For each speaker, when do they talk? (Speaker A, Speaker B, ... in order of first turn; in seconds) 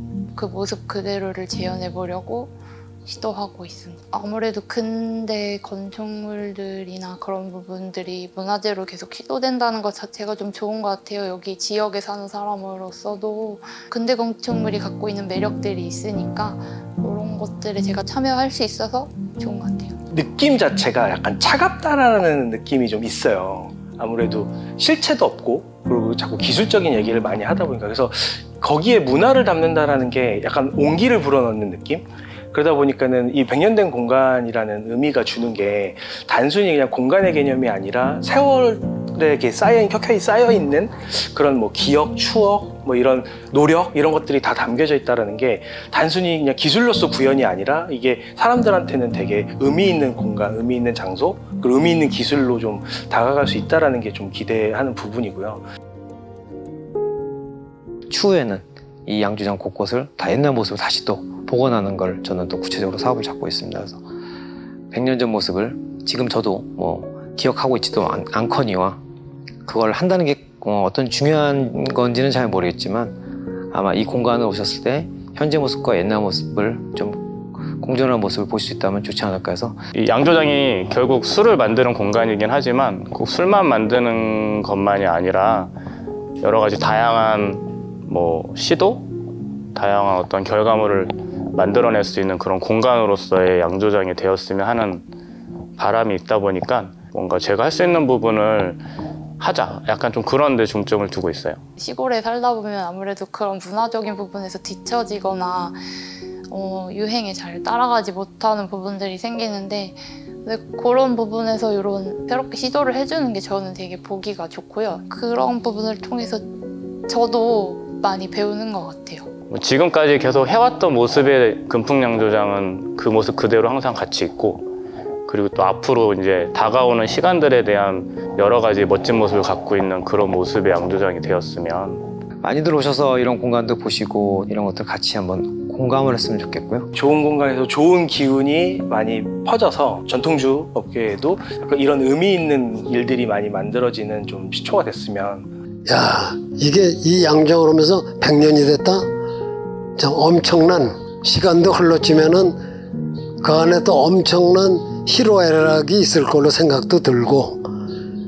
Speaker A: 0.3-20.0, 101.8-105.8, 106.5-116.5, 117.1-119.3
Speaker B: 20.1-55.6, 136.9-145.5
Speaker C: 58.1-64.0, 64.9-69.0, 69.6-79.8, 132.4-136.9
Speaker D: 79.9-85.7, 86.4-89.1, 89.7-95.1, 95.8-98.8, 99.4-101.6, 119.5-124.7, 125.3-132.0
Speaker E: 145.9-149.1, 150.0-152.6, 153.4-157.7